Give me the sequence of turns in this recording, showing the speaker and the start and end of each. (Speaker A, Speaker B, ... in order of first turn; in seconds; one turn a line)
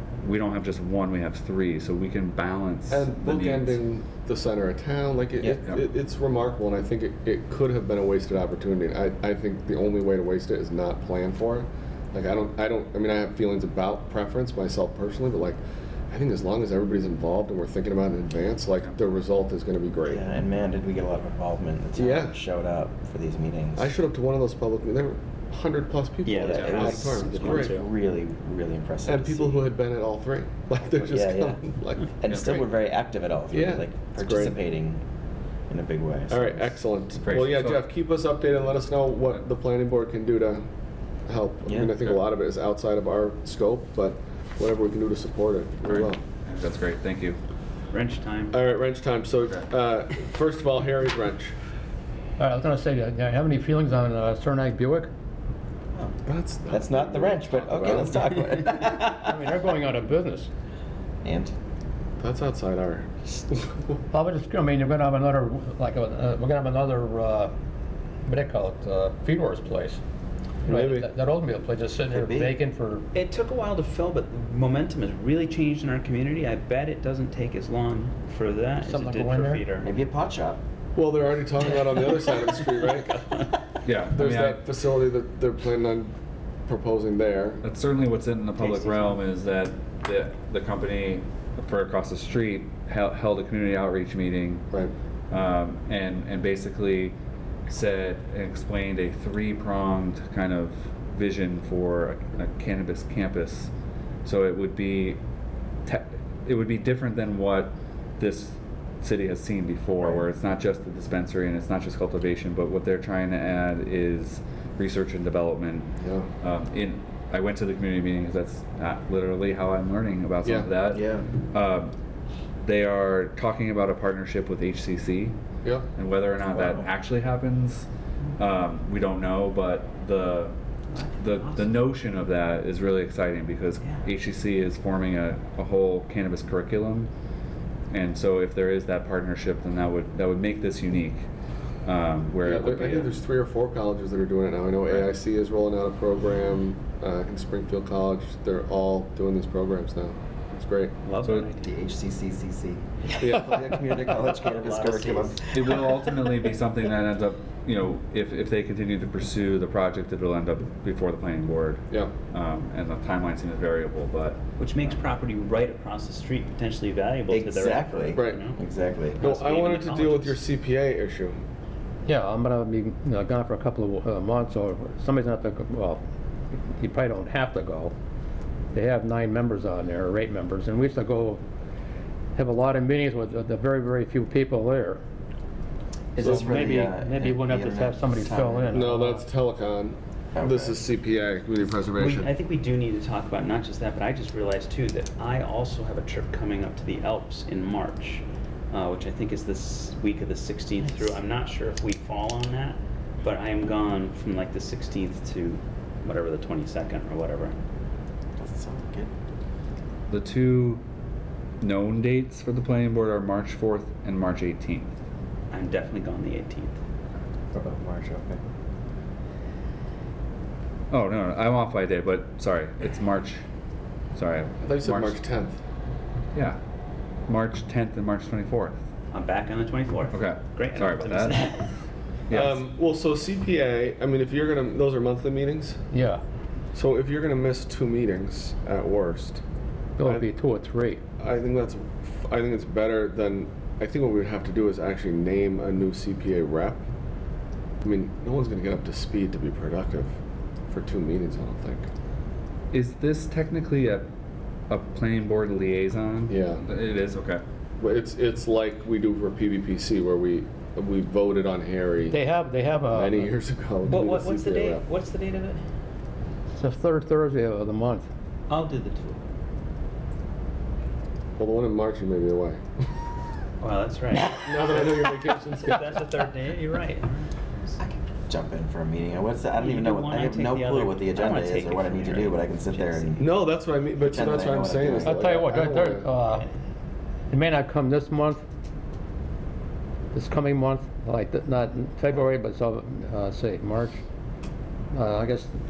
Speaker A: 0.2-3.8
Speaker B: 2.9-15.6
Speaker B: 16.1-20.3
Speaker C: 20.1-23.9
Speaker B: 21.9-22.4
Speaker B: 23.8-27.8
Speaker D: 26.2-27.9
Speaker C: 26.5-26.9
Speaker C: 27.4-29.7
Speaker B: 29.1-32.1
Speaker C: 31.0-31.6
Speaker C: 32.2-35.0
Speaker A: 32.3-32.6
Speaker B: 33.5-34.5
Speaker C: 35.7-36.8
Speaker B: 36.3-40.6
Speaker A: 37.2-37.8
Speaker B: 41.3-46.2
Speaker C: 41.6-42.0
Speaker A: 45.9-47.4
Speaker D: 47.9-48.5
Speaker B: 48.5-51.5
Speaker E: 52.4-55.1
Speaker B: 56.2-58.2
Speaker C: 56.7-59.6
Speaker E: 59.1-60.5
Speaker C: 61.2-61.5
Speaker B: 62.2-64.0
Speaker E: 64.1-67.5
Speaker E: 68.3-70.0
Speaker B: 70.7-71.1
Speaker E: 70.7-73.1
Speaker C: 72.0-72.6
Speaker D: 73.1-79.9
Speaker E: 78.9-79.6
Speaker C: 79.8-80.6
Speaker B: 81.0-83.2
Speaker A: 83.8-84.6
Speaker B: 84.1-86.1
Speaker B: 86.7-87.6
Speaker A: 87.6-94.6
Speaker D: 88.6-89.2
Speaker A: 95.3-97.2
Speaker A: 97.7-103.7
Speaker A: 104.2-105.2
Speaker A: 105.8-115.9
Speaker B: 116.0-116.3
Speaker A: 116.4-121.9
Speaker B: 120.4-120.7
Speaker C: 120.9-121.3
Speaker A: 122.6-125.4
Speaker A: 126.0-127.9
Speaker C: 126.5-126.9
Speaker A: 128.4-130.5
Speaker D: 130.9-131.8
Speaker A: 131.2-137.1
Speaker A: 137.9-141.2
Speaker A: 141.8-143.1
Speaker B: 142.4-150.9
Speaker D: 151.0-151.8
Speaker A: 151.2-151.5
Speaker C: 151.6-156.0
Speaker B: 153.2-153.7
Speaker D: 153.9-155.8
Speaker A: 155.5-164.4
Speaker D: 164.6-170.4
Speaker C: 167.3-169.2
Speaker B: 168.1-168.4
Speaker B: 169.2-171.3
Speaker E: 172.1-176.0
Speaker E: 176.8-177.9
Speaker E: 178.7-181.4
Speaker E: 182.3-185.0
Speaker C: 186.2-188.8
Speaker B: 186.2-186.6
Speaker E: 186.2-189.2
Speaker B: 188.7-192.3
Speaker C: 190.3-190.8
Speaker D: 192.0-207.6
Speaker C: 200.8-201.1
Speaker C: 208.4-209.1
Speaker A: 210.1-210.8
Speaker A: 211.6-214.9
Speaker D: 215.5-216.8
Speaker C: 217.5-218.4
Speaker A: 220.9-223.4
Speaker A: 224.1-225.2
Speaker B: 224.6-225.6
Speaker A: 227.3-228.8
Speaker D: 229.1-231.7
Speaker A: 230.1-231.5
Speaker A: 232.3-232.6
Speaker B: 232.3-235.8
Speaker E: 235.9-236.2
Speaker B: 236.7-239.4
Speaker E: 240.0-241.0
Speaker B: 241.2-246.8
Speaker B: 247.8-250.1
Speaker B: 250.7-251.8
Speaker A: 252.7-254.1
Speaker A: 254.7-257.4
Speaker B: 256.3-256.6
Speaker B: 257.8-262.2
Speaker E: 262.1-263.3
Speaker B: 262.9-264.8
Speaker D: 263.9-265.6
Speaker E: 266.6-268.1
Speaker D: 268.5-269.2
Speaker B: 271.4-272.6
Speaker D: 273.6-274.9
Speaker B: 274.3-276.0
Speaker D: 275.6-277.3
Speaker C: 277.8-283.2
Speaker D: 279.5-283.3
Speaker B: 283.2-286.1
Speaker C: 284.0-285.2
Speaker E: 285.0-286.5
Speaker E: 287.3-288.4
Speaker E: 290.1-294.0
Speaker E: 294.9-295.5